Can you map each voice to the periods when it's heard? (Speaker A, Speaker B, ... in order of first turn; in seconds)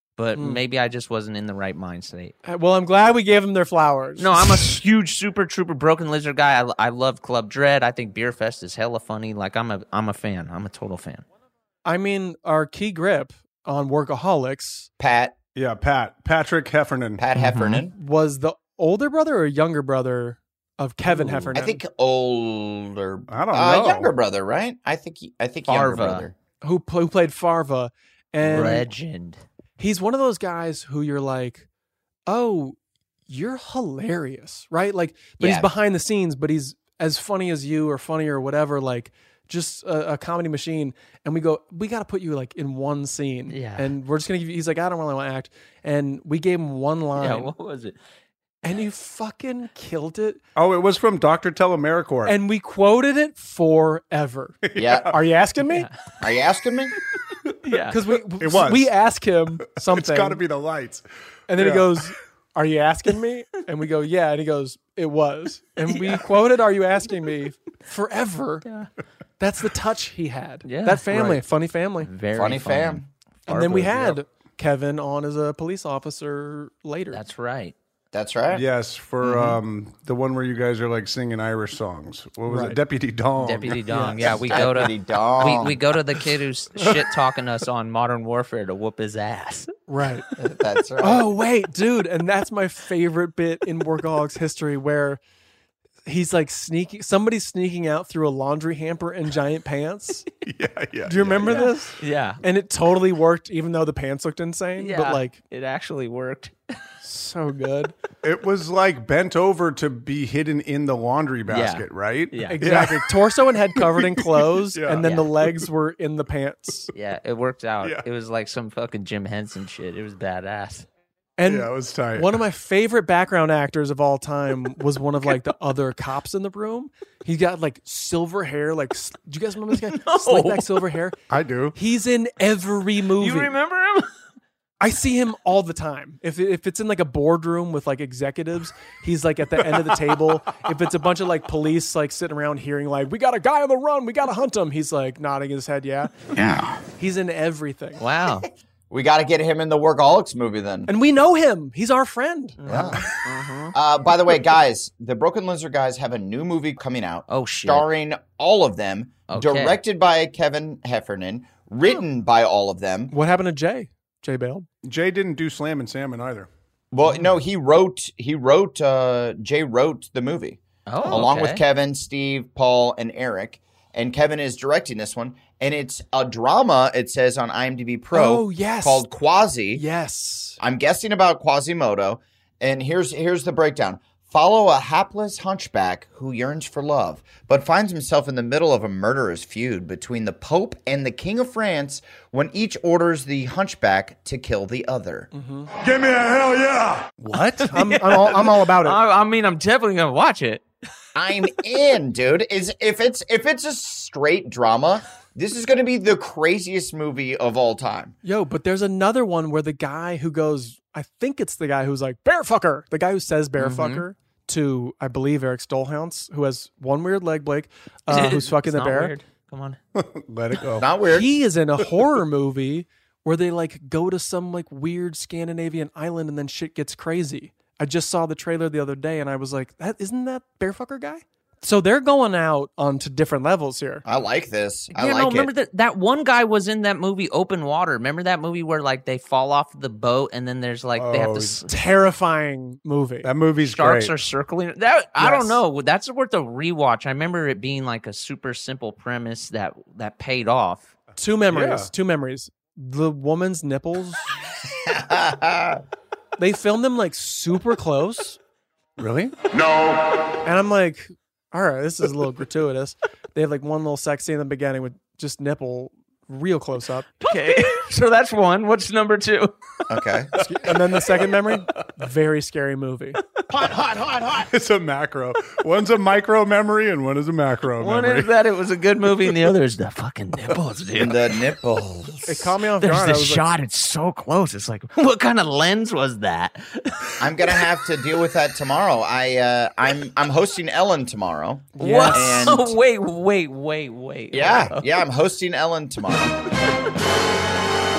Speaker A: 0.2-2.3, 4.2-11.2, 17.4-17.8, 25.7-26.3, 28.4-29.4, 43.5-43.9, 47.1-48.0, 57.6-58.0, 70.6-71.4, 72.0-73.0, 77.1-77.7, 79.2-79.6, 83.4-89.7, 101.5-102.4, 104.8-106.5, 111.5-112.6, 115.0-115.3, 116.9-120.8, 129.8-130.8, 133.2-134.1, 148.0-148.5, 152.6-153.7, 157.3-157.9, 159.3-159.8, 170.9-171.6, 197.7-200.6, 213.6-214.0, 218.1-219.8, 234.9-241.7, 243.6-250.9, 267.2-269.5, 277.8-281.2, 282.8-287.1, 291.8-294.9
Speaker B: 0.3-0.6, 2.4-4.6, 11.8-14.9, 17.9-21.8, 26.6-28.9, 29.8-31.6, 32.3-32.8, 33.3-47.5, 48.6-50.4, 52.2-54.6, 55.1-55.9, 57.9-60.4, 61.5-68.6, 69.4-72.1, 73.5-77.2, 82.5-82.8, 83.9-84.3, 89.9-90.2, 91.0-95.2, 96.0-100.2, 101.0-105.4, 107.0-107.9, 112.5-116.9, 121.4-131.2, 131.7-133.5, 134.8-146.1, 147.0-148.0, 150.9-152.9, 163.1-164.7, 178.1-179.1, 179.7-180.6, 195.3-195.7, 197.7-199.0, 208.2-219.1, 221.0-234.0, 241.7-243.3, 245.2-245.5, 251.2-254.2, 256.4-258.4, 260.4-267.1, 270.4-273.2, 282.2-283.4, 291.7-292.5
Speaker C: 15.0-15.3, 17.2-17.9, 21.5-26.4, 35.4-35.7, 54.8-55.1, 56.2-56.9, 72.3-74.0, 78.1-78.6, 84.2-85.8, 90.4-91.3, 148.9-150.9, 152.7-153.0, 153.7-163.1, 166.9-179.8, 180.6-195.3, 201.1-208.1, 220.8-221.3, 234.1-235.5, 254.8-255.8, 269.9-270.3, 280.9-282.5, 287.2-292.7, 294.3-296.4
Speaker D: 15.6-17.2, 23.3-24.1, 50.5-52.4, 54.6-55.1, 58.4-58.9, 59.6-62.0, 78.5-83.8, 100.4-101.7, 108.2-113.1, 113.8-115.1, 121.5-122.4, 131.3-131.8, 139.7-139.9, 164.8-166.5, 196.0-198.1, 219.9-220.9, 240.9-241.6, 243.2-244.1, 251.5-251.9, 259.0-259.3, 274.3-278.3